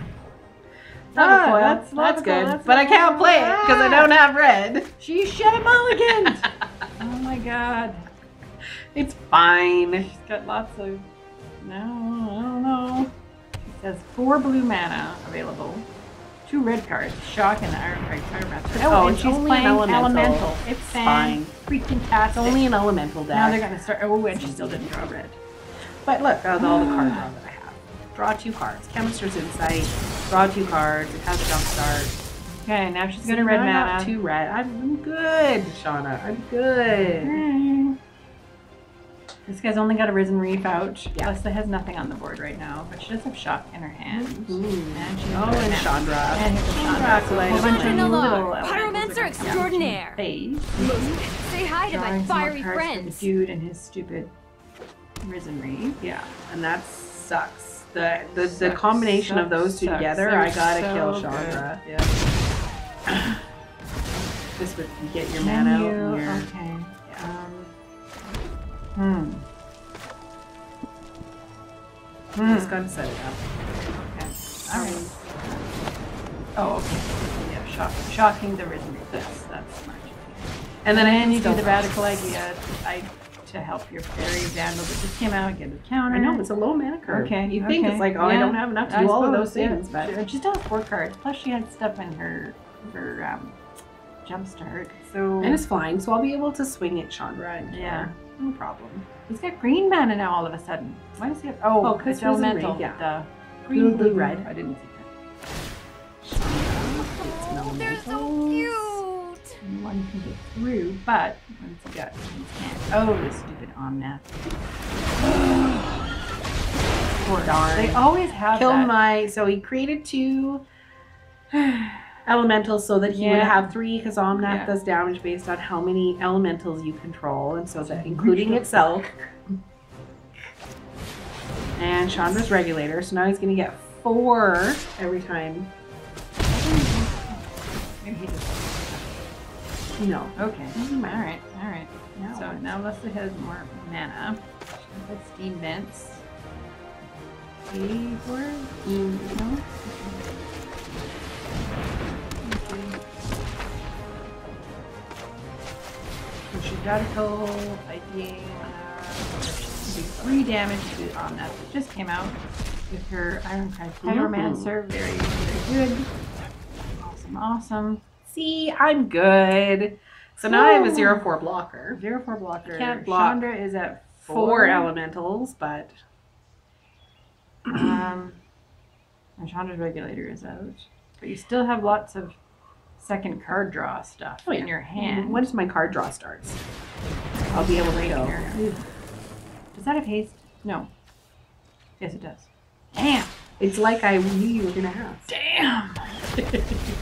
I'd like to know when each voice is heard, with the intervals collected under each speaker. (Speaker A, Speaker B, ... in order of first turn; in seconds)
Speaker A: 1.1-4.9, 8.9-10.1, 18.7-21.5, 22.3-23.6, 24.3-25.1, 26.1-32.2, 33.2-37.4, 44.1-48.5, 50.8-51.2, 56.0-61.8, 64.6-66.5, 72.4-73.5, 74.7-75.2, 80.8-82.1, 86.1-90.2, 95.4-99.1, 101.8-103.0, 103.7-104.5, 106.2-109.0, 117.4-120.6, 122.3-129.1, 131.8-135.7, 140.0-141.2, 142.2-142.6, 164.0-164.7, 168.3-172.0, 172.7-173.4, 174.3-175.9, 184.5-186.6, 187.5-188.6, 193.6-195.3
Speaker B: 1.1-4.1, 5.0-8.1, 10.0-11.1, 11.6-15.9, 16.5-22.6, 23.3-25.4, 26.6-27.3, 32.6-34.1, 36.9-38.0, 39.5-51.2, 51.9-54.3, 55.2-56.3, 58.5-62.1, 65.4-68.4, 69.0-69.5, 72.3-72.8, 73.9-75.7, 76.6-86.4, 87.1-93.6, 94.2-95.6, 97.7-98.1, 99.3-105.1, 109.6-114.6, 115.2-116.2, 117.2-119.0, 121.5-122.2, 123.1-123.8, 124.3-124.7, 127.8-128.8, 136.4-139.3, 140.4-146.2, 147.7-150.3, 152.3-153.0, 156.5-162.4, 162.9-166.1, 167.0-168.0, 170.4-171.2, 171.9-174.9, 177.7-178.4, 179.4-182.4, 183.0-185.5, 187.5-188.8, 189.7-190.9, 192.0-193.3, 195.3-196.6
Speaker C: 47.5-50.2, 50.8-53.3, 107.2-109.4